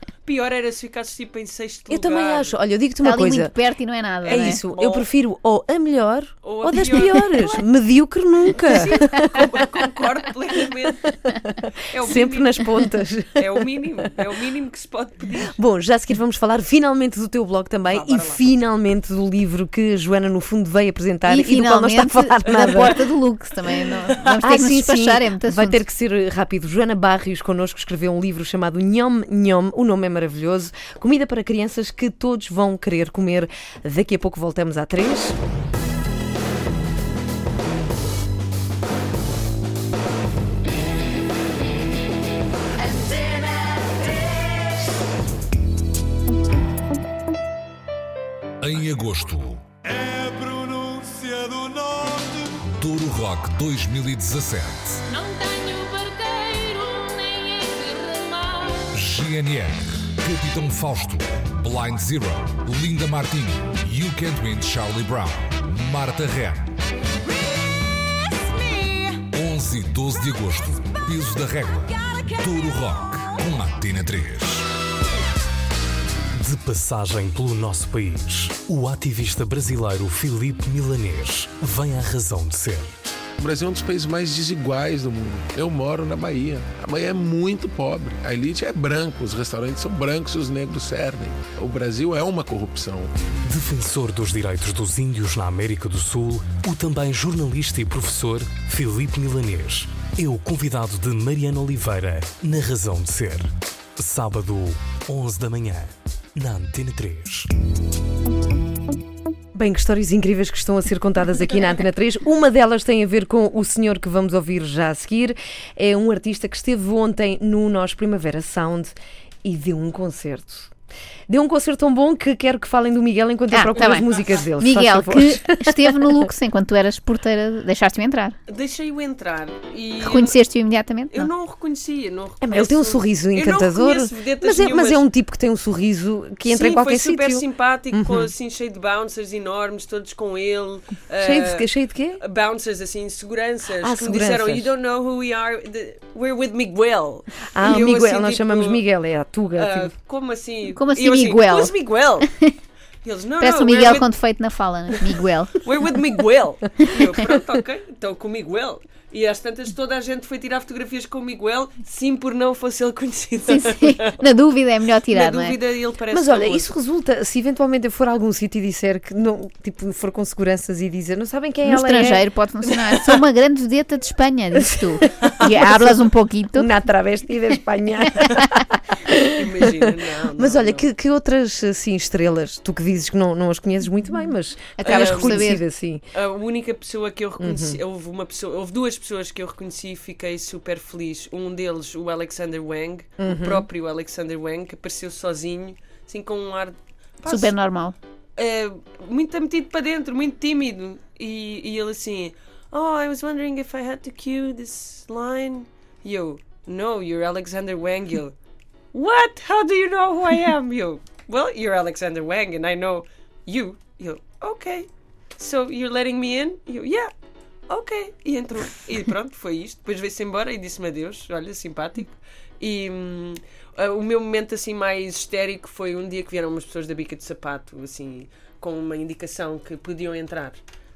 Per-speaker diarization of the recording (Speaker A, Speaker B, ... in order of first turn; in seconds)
Speaker A: 0.2-2.5, 4.4-5.1, 6.4-7.6, 8.6-11.1, 11.9-12.7, 13.3-15.6, 17.9-18.6, 22.5-23.0, 123.8-124.4, 128.5-130.4, 131.1-135.0, 136.4-148.8, 149.5-152.3, 153.0-154.1, 155.6-164.2, 165.1-166.7, 179.3-180.9, 184.8-185.5, 186.1-197.5, 198.4-208.3, 208.9-217.1, 217.7-230.6
Speaker B: 1.9-3.5, 4.2-9.7, 11.1-14.1, 15.4-22.9, 24.4-35.4, 109.5-120.7, 121.3-126.3, 132.4-138.3, 141.2-142.2, 143.8-144.7, 147.5-149.9, 166.1-172.2, 175.6-175.9, 176.5-179.9, 180.4-186.0, 187.4-187.8, 193.2-193.7
Speaker C: 3.0-4.6, 21.3-25.8, 123.5-124.0, 124.6-128.4, 130.0-131.3, 150.7-152.5, 153.4-155.6, 163.5-165.6, 171.6-176.7, 184.8-185.6, 197.2-197.9
Speaker D: 48.6-49.6, 52.4-55.0, 58.9-66.7, 69.3-74.7
Speaker E: 55.1-58.9, 68.3-69.2
Speaker F: 76.4-82.9, 93.5-107.5
Speaker G: 83.4-93.1